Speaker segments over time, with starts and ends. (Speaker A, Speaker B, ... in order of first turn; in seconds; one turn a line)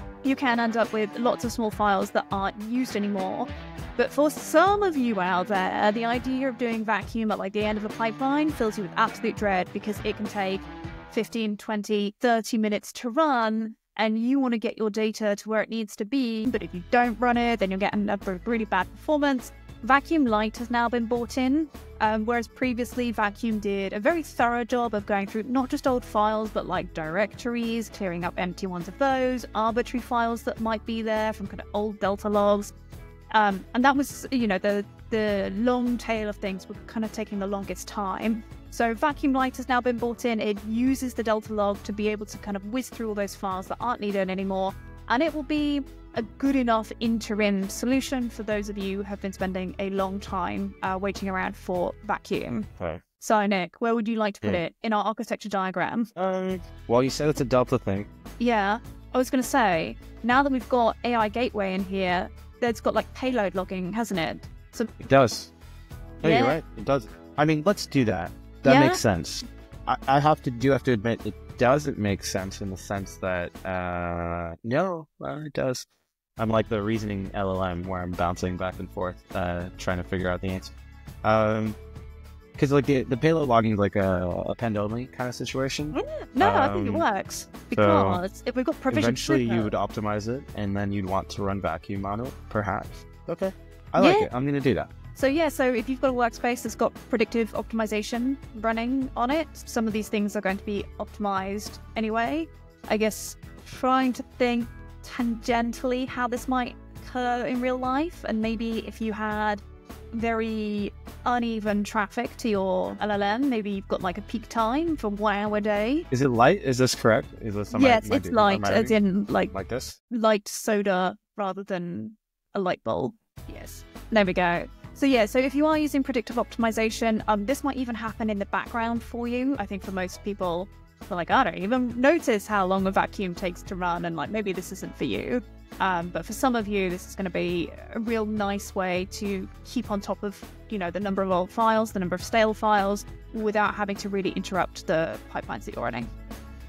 Speaker A: 0.2-32.7
Speaker A: 33.3-52.7
Speaker B: 52.8-53.0
Speaker A: 53.2-56.1
Speaker B: 56.1-58.1
Speaker A: 58.4-64.9
Speaker B: 65.0-65.5
Speaker B: 66.2-75.8
Speaker A: 66.2-66.6
Speaker A: 68.6-69.0
Speaker B: 76.4-81.8
Speaker B: 82.5-87.0
Speaker A: 85.9-89.7
Speaker B: 87.7-88.2
Speaker B: 88.9-94.9
Speaker A: 94.0-94.3
Speaker A: 95.1-116.1
Speaker B: 116.1-119.0
Speaker A: 117.7-119.5
Speaker B: 119.5-120.0
Speaker A: 120.1-146.1